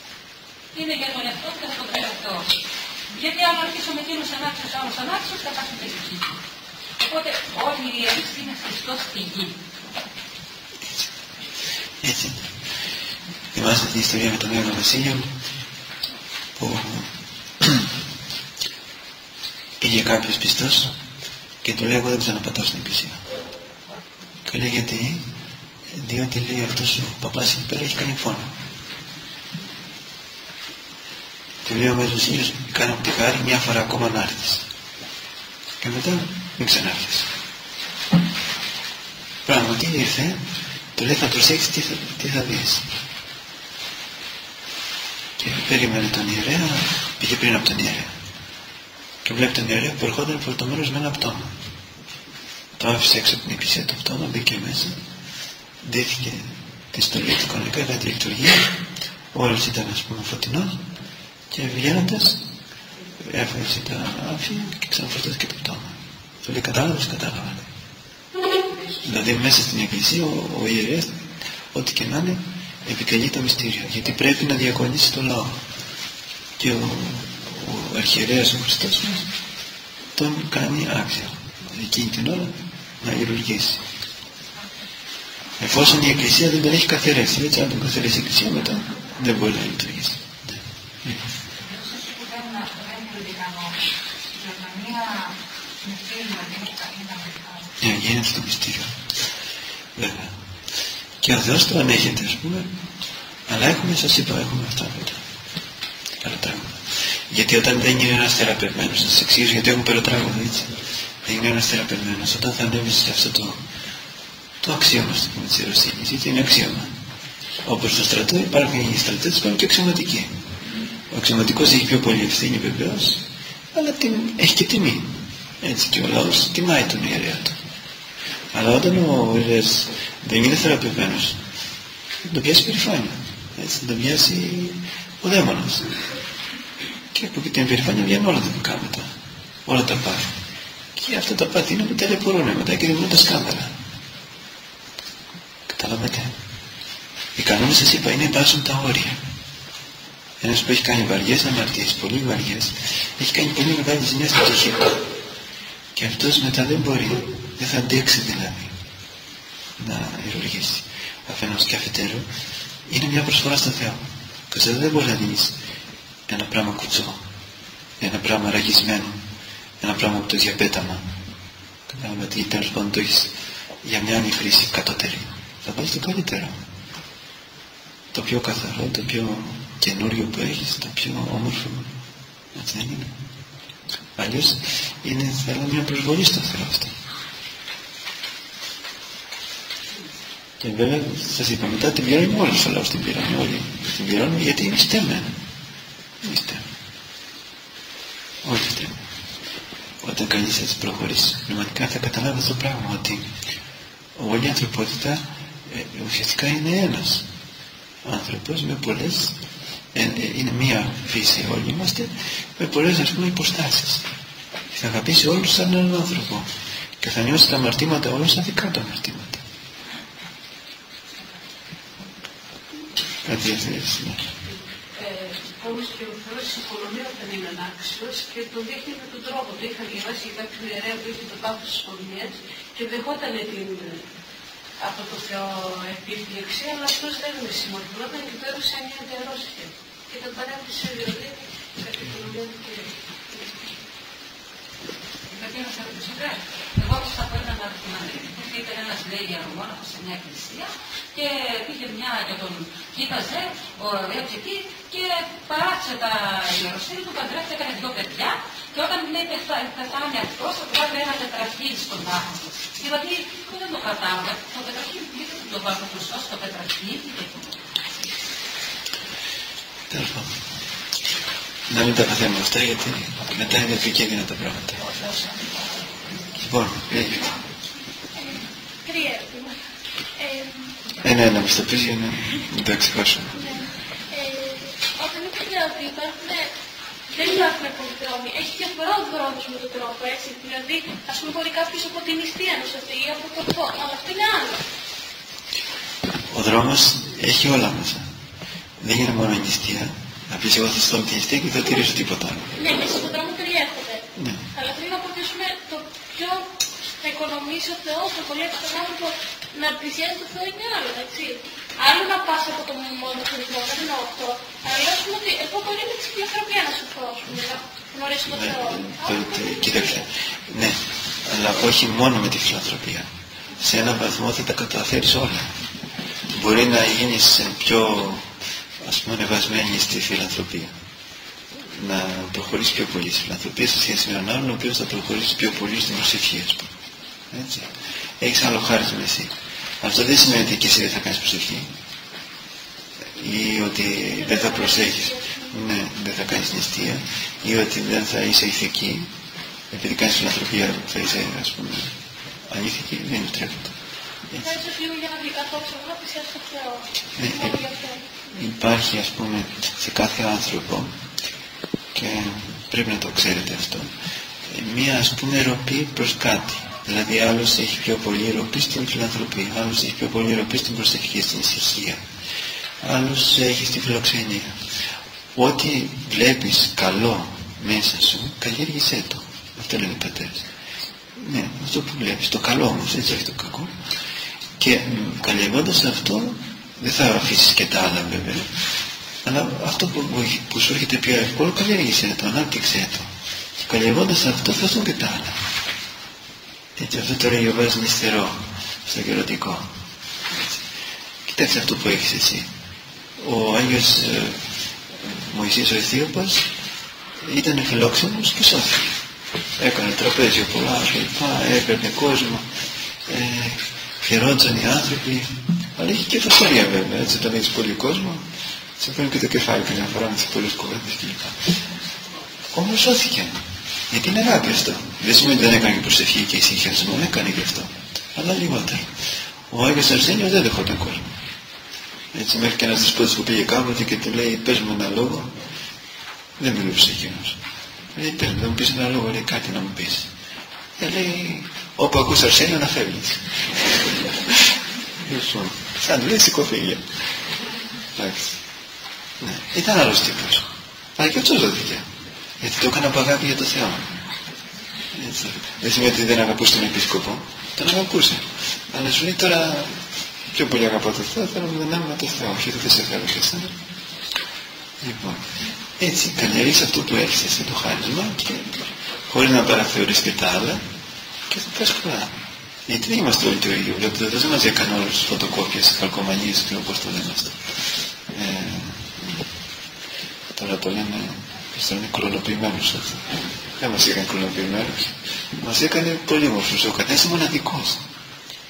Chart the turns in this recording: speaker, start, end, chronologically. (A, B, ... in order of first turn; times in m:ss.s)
0:00.7-0:06.4 A
0:07.0-0:09.6 A
0:12.0-0:12.5 B
0:13.5-0:15.3 B
0:16.6-0:17.1 B
0:17.6-0:17.9 B
0:19.8-0:21.0 B
0:21.6-0:23.2 B
0:24.4-0:25.2 B
0:25.9-0:28.5 B
0:31.6-0:34.7 B
0:35.8-0:37.3 B
0:39.5-0:40.4 B
0:41.0-0:42.8 B
0:45.4-0:48.1 B
0:49.2-0:51.5 B
0:52.8-0:55.0 B
0:55.8-0:58.7 B
0:59.3-1:00.8 B
1:01.5-1:02.4 B
1:03.2-1:07.7 B
1:09.0-1:11.2 B
1:11.7-1:15.6 B
1:16.6-1:19.2 B
1:20.2-1:23.8 B
1:25.6-1:31.2 B
1:31.6-1:33.8 A
1:34.3-1:37.6 A
1:37.8-1:38.9 B
1:40.0-1:40.4 B
1:41.2-1:42.7 B
1:43.5-1:45.2 B
1:46.2-1:46.8 B
1:47.3-1:50.7 B
1:51.2-1:53.6 B
1:54.6-1:56.9 B
1:57.6-2:00.3 B
2:01.1-2:07.6 B
2:08.5-2:11.4 B
2:12.2-2:15.9 B
2:17.1-2:19.1 B
2:19.7-2:20.3 B
2:21.0-2:23.7 B
2:25.7-2:26.4 B
2:27.4-2:29.2 B
2:30.4-2:35.0 B
2:36.0-2:38.7 B
2:39.8-2:42.3 B
2:42.9-2:45.6 B
2:46.3-2:47.2 B
2:48.0-2:49.2 B
2:49.8-2:51.0 B
2:51.9-2:53.3 B
2:53.8-2:56.6 B
2:58.1-3:01.9 B
3:02.5-3:03.1 B
3:04.2-3:06.9 B
3:10.6-3:15.4 B
3:16.2-3:16.6 B
3:18.4-3:19.0 B
3:20.0-3:23.3 B
3:24.2-3:27.3 B
3:28.0-3:29.4 B
3:29.9-3:34.0 B
3:34.7-3:36.5 B
3:37.0-3:39.4 B
3:43.2-3:44.2 B
3:45.5-3:54.0 C
3:54.8-4:02.9 C
4:05.3-4:27.6 A
4:29.9-4:30.3 B
4:31.7-4:34.8 B
4:34.9-4:35.6 A
4:36.4-4:37.4 B
4:38.2-4:39.6 D
4:40.2-4:40.8 D
4:41.0-4:43.5 B
4:43.4-4:46.5 D
4:47.1-4:54.6 D
4:56.3-4:58.1 B
4:58.8-5:02.6 B
5:02.6-5:06.5 D
5:04.2-5:04.4 B
5:07.0-5:20.0 D
5:18.3-5:25.5 B
5:26.3-5:28.3 B
5:28.8-5:30.7 B
5:31.7-5:36.7 B
5:37.3-5:41.7 B
5:43.2-5:49.1 B
5:44.2-5:45.5 D
5:49.7-5:51.9 B
5:52.5-5:53.7 B
5:54.3-5:54.6 B
5:54.4-5:58.0 D
5:57.2-5:57.6 B
5:58.4-6:00.9 B
6:01.9-6:03.9 B
6:04.5-6:12.0 B
6:12.8-6:14.6 B
6:15.4-6:20.5 B
6:21.2-6:23.7 B
6:24.6-6:28.5 B
6:29.2-6:33.1 B
6:33.6-6:35.4 B
6:36.8-6:39.7 B
6:41.3-6:42.5 B
6:43.2-6:46.5 B
6:47.2-6:48.9 B
6:49.6-6:52.4 B
6:53.1-6:58.2 B
6:58.8-7:01.4 B
7:02.5-7:03.4 B
7:03.9-7:08.9 B
7:09.5-7:11.1 B
7:12.1-7:15.3 B
7:16.4-7:17.4 B
7:18.0-7:20.1 B
7:20.8-7:26.8 B
7:28.0-7:28.4 B
7:29.2-7:31.9 B
7:32.4-7:33.9 B
7:34.9-7:39.8 B
7:40.3-7:43.5 B
7:44.8-7:45.2 B
7:45.8-7:50.6 B
7:51.3-7:52.1 B
7:52.7-7:57.4 B
7:58.1-7:59.2 B
8:00.4-8:07.8 B